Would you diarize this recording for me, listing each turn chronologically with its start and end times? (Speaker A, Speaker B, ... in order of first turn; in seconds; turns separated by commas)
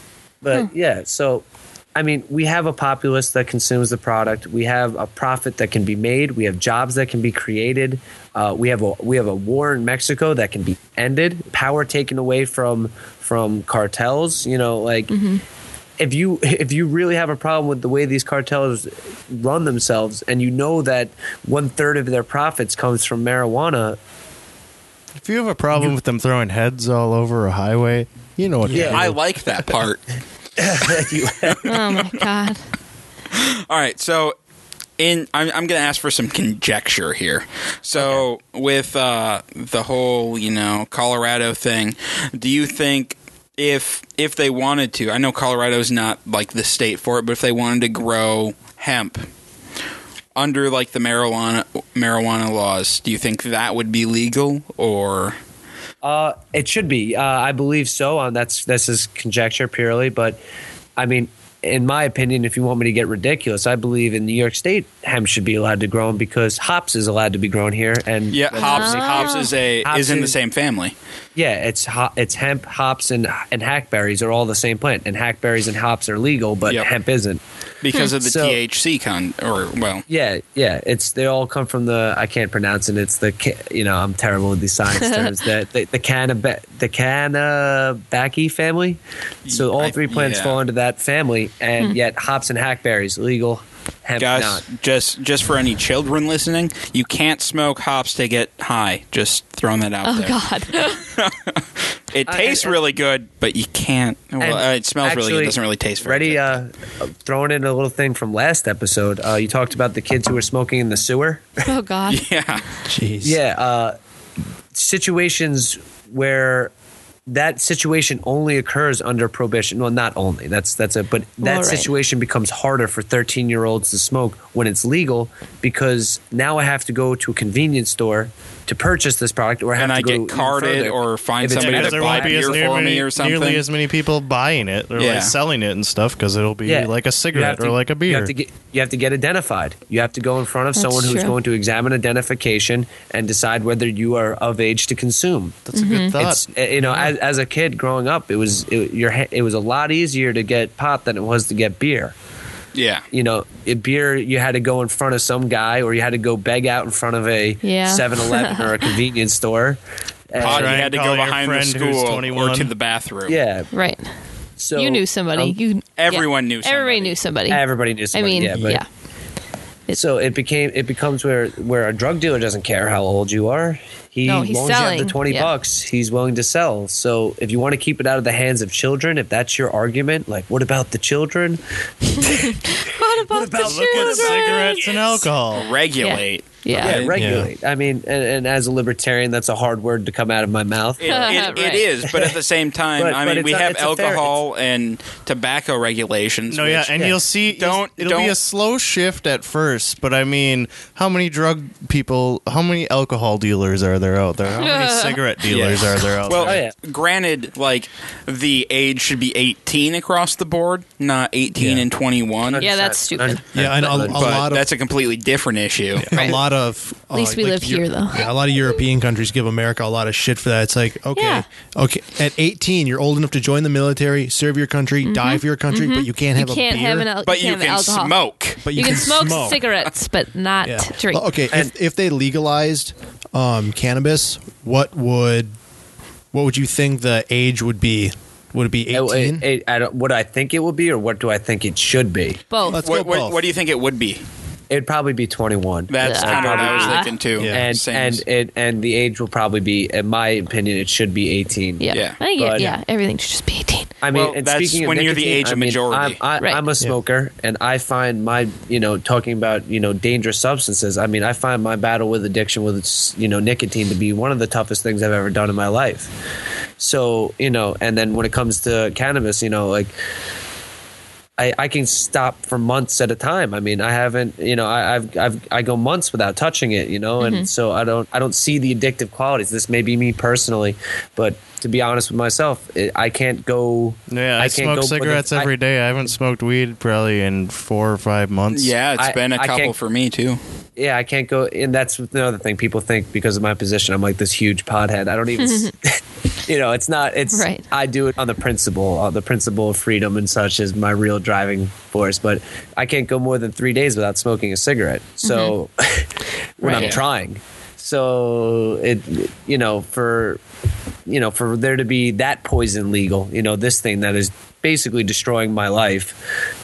Speaker A: 0.4-1.4, Speaker A: 1.9-15.1, Speaker B: 15.1-15.4, Speaker A: 16.0-24.0, Speaker C: 25.2-29.1, Speaker D: 28.7-28.9, Speaker A: 28.7-29.0, Speaker E: 28.8-30.0, Speaker A: 30.6-31.7, Speaker B: 31.6-32.6, Speaker E: 33.3-34.3, Speaker E: 35.0-49.2, Speaker A: 38.0-38.2, Speaker E: 50.4-55.4, Speaker A: 56.0-60.4, Speaker A: 61.0-70.3, Speaker E: 68.3-70.9, Speaker B: 68.5-69.5, Speaker A: 71.3-77.4, Speaker E: 77.8-80.0, Speaker A: 78.2-78.6, Speaker A: 80.1-94.6, Speaker B: 85.0-85.3, Speaker E: 89.5-90.6, Speaker E: 94.2-100.3, Speaker B: 100.0-101.1, Speaker E: 101.0-106.6, Speaker A: 102.3-102.8, Speaker A: 104.4-111.6, Speaker B: 111.6-112.2, Speaker E: 112.1-112.6, Speaker D: 112.9-113.4, Speaker A: 113.2-114.0, Speaker A: 114.7-116.7, Speaker A: 117.3-132.7, Speaker B: 121.4-121.9, Speaker E: 129.8-133.6, Speaker C: 131.5-138.3, Speaker E: 135.0-135.3, Speaker A: 136.7-145.6, Speaker B: 140.7-141.3, Speaker C: 145.7-146.5, Speaker B: 145.7-146.2, Speaker A: 146.2-152.1, Speaker E: 152.7-153.0, Speaker A: 153.1-159.8, Speaker B: 157.6-158.9, Speaker A: 160.3-160.8, Speaker C: 160.4-162.7, Speaker E: 160.4-163.4, Speaker A: 163.3-163.7, Speaker B: 163.7-164.1, Speaker A: 164.6-165.6, Speaker B: 164.7-168.9, Speaker E: 166.0-167.1, Speaker A: 167.5-168.8, Speaker A: 169.9-184.9, Speaker B: 174.2-175.5, Speaker B: 182.2-185.2, Speaker C: 183.6-185.7, Speaker E: 185.5-187.1, Speaker B: 186.0-187.0, Speaker A: 186.8-191.3, Speaker D: 187.1-187.5, Speaker E: 191.0-198.3, Speaker B: 191.1-191.8, Speaker A: 192.1-192.3, Speaker A: 193.0-194.4, Speaker C: 196.5-206.6, Speaker B: 204.6-205.2, Speaker E: 205.5-212.7, Speaker A: 206.4-206.7, Speaker D: 211.6-211.8, Speaker A: 212.5-214.4, Speaker B: 212.6-213.4, Speaker D: 213.5-214.7, Speaker E: 213.7-216.1, Speaker D: 216.0-227.1, Speaker B: 216.1-216.4, Speaker B: 217.1-218.3, Speaker B: 221.1-221.4, Speaker B: 225.0-228.2, Speaker E: 227.2-228.6, Speaker D: 228.6-229.6, Speaker B: 228.7-231.2, Speaker D: 230.6-235.5, Speaker D: 236.3-239.4, Speaker A: 238.9-242.4, Speaker B: 242.5-242.8, Speaker D: 242.7-243.4, Speaker E: 242.8-244.2, Speaker A: 244.7-251.8, Speaker E: 245.9-248.2, Speaker B: 246.0-247.1, Speaker D: 247.4-247.7, Speaker B: 251.8-253.9, Speaker E: 251.9-252.2, Speaker A: 252.3-252.7, Speaker A: 254.0-266.1, Speaker E: 254.1-256.2, Speaker B: 256.4-256.6, Speaker A: 266.8-269.9, Speaker A: 271.4-285.5, Speaker B: 277.2-277.5, Speaker C: 284.1-288.7, Speaker E: 288.5-290.4, Speaker A: 289.0-289.7, Speaker A: 290.8-310.4, Speaker B: 295.4-295.7, Speaker B: 297.3-297.6, Speaker B: 305.2-305.5, Speaker B: 306.6-307.0, Speaker E: 306.7-307.0, Speaker A: 311.1-316.2